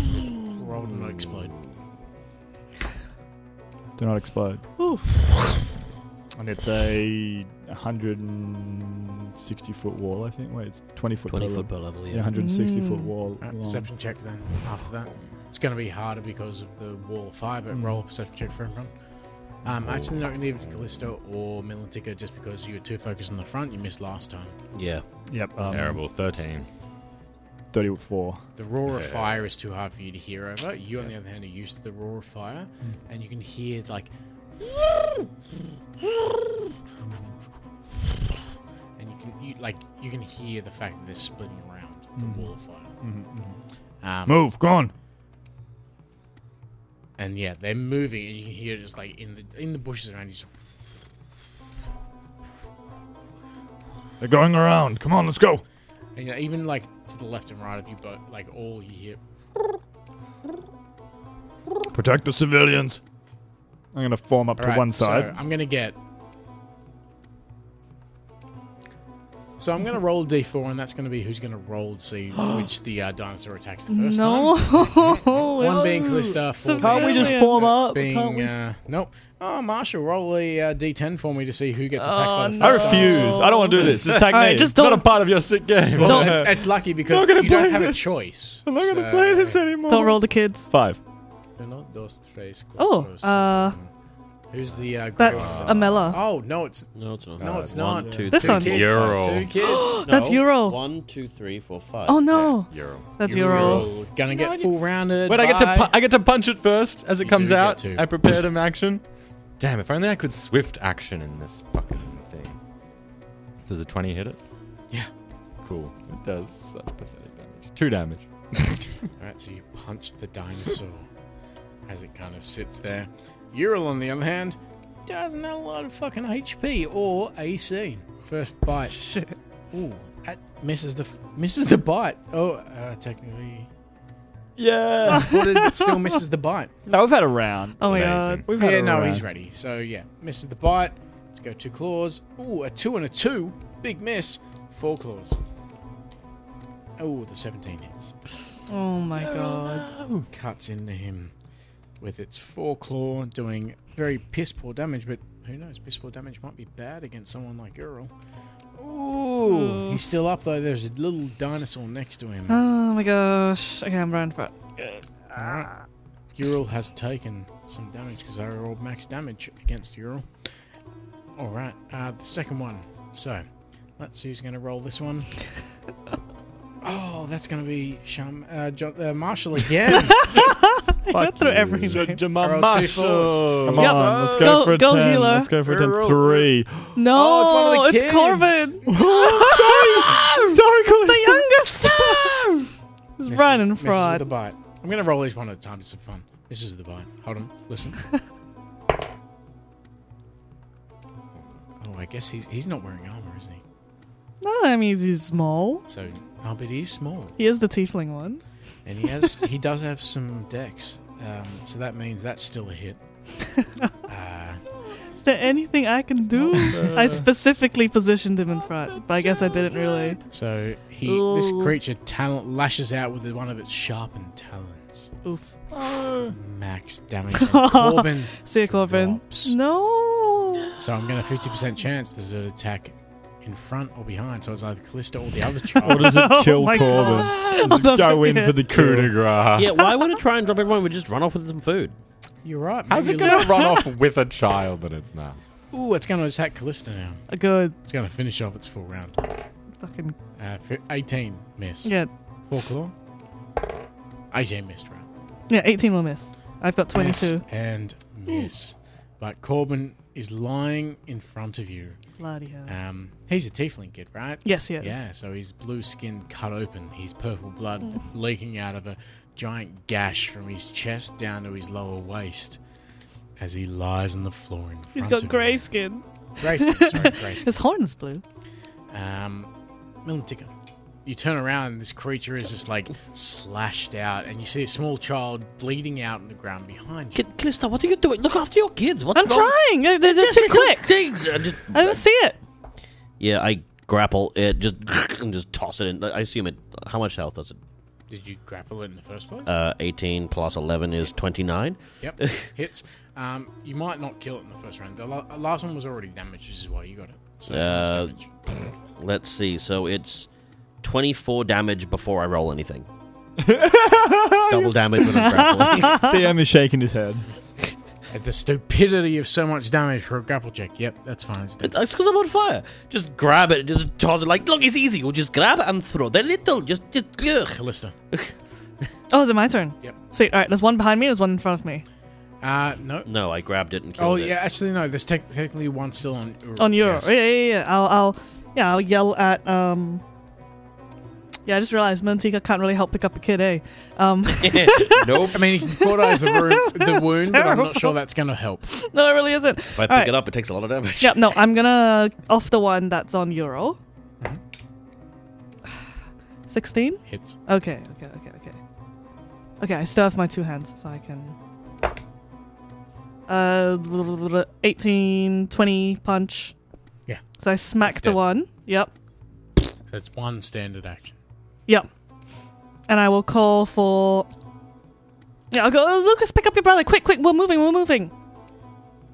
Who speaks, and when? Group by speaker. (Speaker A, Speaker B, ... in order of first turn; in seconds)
Speaker A: 0.5-1.6, 13.4-18.9, 19.6-24.5, 28.6-35.3, 39.0-42.9, 44.0-44.4, 47.2-50.5, 56.1-59.2, 64.6-66.0, 69.6-83.5, 86.0-89.6, 91.6-93.9, 94.5-100.4, 103.2-105.9, 107.2-108.1, 119.2-121.0, 121.9-129.0, 129.7-133.7, 135.1-136.7, 138.5-145.4, 147.0-148.1, 150.3-151.3, 152.0-158.1, 158.8-162.6, 165.3-165.7, 166.3-170.2, 171.3-173.4, 174.0-175.3, 176.8-180.4, 182.3-184.8, 185.6-189.6, 193.2-198.0, 201.8-203.6, 205.9-207.4, 208.8-213.0, 214.1-214.6, 220.2-225.1, 226.3-229.6, 230.8-236.3, 242.4-243.7, 245.7-247.2, 247.8-249.2, 250.4-251.9, 252.5-252.9, 254.3-255.1, 256.9-262.0, 262.7-272.6, 273.4-275.7, 276.4-277.6, 278.9-279.5, 280.0-280.5, 281.0-287.2, 298.1-299.5, 302.0-308.3, 318.1-321.7, 327.4-327.9, 332.4-333.1, 334.0-337.1, 345.3-348.6, 357.1-357.4, 367.8-368.2, 369.9-371.1
Speaker B: 4.0-4.7, 6.3-13.9, 17.7-18.0, 25.3-26.0, 27.7-28.4, 42.2-43.6, 44.2-44.9, 54.2-55.6, 61.9-63.0, 63.9-65.3, 72.3-72.7, 75.6-76.0, 76.8-78.6, 82.6-84.8, 86.0-88.0, 88.7-91.0, 134.6-135.6, 136.8-139.3, 181.1-186.9, 188.8-192.5, 216.4-217.3, 225.7-226.3, 235.8-239.2, 313.4-317.2
Speaker C: 4.8-5.1, 12.3-13.1, 73.9-77.7, 82.0-85.2, 86.0-86.3, 89.9-90.7, 92.8-93.8, 95.2-96.2, 98.3-99.0, 99.5-100.8, 102.1-103.9, 128.9-129.3, 135.1-136.1, 137.8-138.5, 148.7-149.9, 159.4-160.0, 162.5-165.8, 179.9-182.2, 183.8-185.5, 186.9-190.2, 191.0-192.4, 193.2-194.3, 204.4-205.8, 207.4-208.4, 213.6-213.9, 215.2-220.2, 221.0-221.8, 225.2-225.5, 227.4-230.7, 235.8-238.6, 243.2-243.9, 247.3-247.8, 249.8-250.1, 251.8-252.1, 255.5-257.4, 262.2-262.7, 264.4-265.0, 274.9-278.2, 289.1-291.0, 291.7-292.4, 315.2-316.2, 329.1-331.8, 336.6-340.0, 341.4-348.0, 348.7-350.1, 351.0-353.8, 356.5-358.6, 359.6-361.3, 363.3-366.5, 367.4-368.9, 372.9-374.3, 375.5-378.1
Speaker D: 11.3-12.3, 24.7-25.0, 96.9-99.0, 100.0-102.2, 239.6-241.9, 287.1-292.0, 293.2-297.6, 299.4-302.5, 307.5-308.1, 309.0-310.3, 310.8-312.9, 314.5-316.1, 321.6-327.6, 333.0-334.4, 344.4-345.5, 349.8-351.3
Speaker E: 19.8-21.1, 25.6-26.6, 28.9-29.5, 83.8-86.5, 87.4-87.9, 88.7-89.7, 95.2-96.1, 97.4-99.5, 102.3-109.0, 109.6-112.5, 113.7-114.4, 115.6-118.9, 137.8-138.5, 149.2-150.3, 181.5-183.9, 237.2-237.8, 238.7-239.8, 242.9-245.4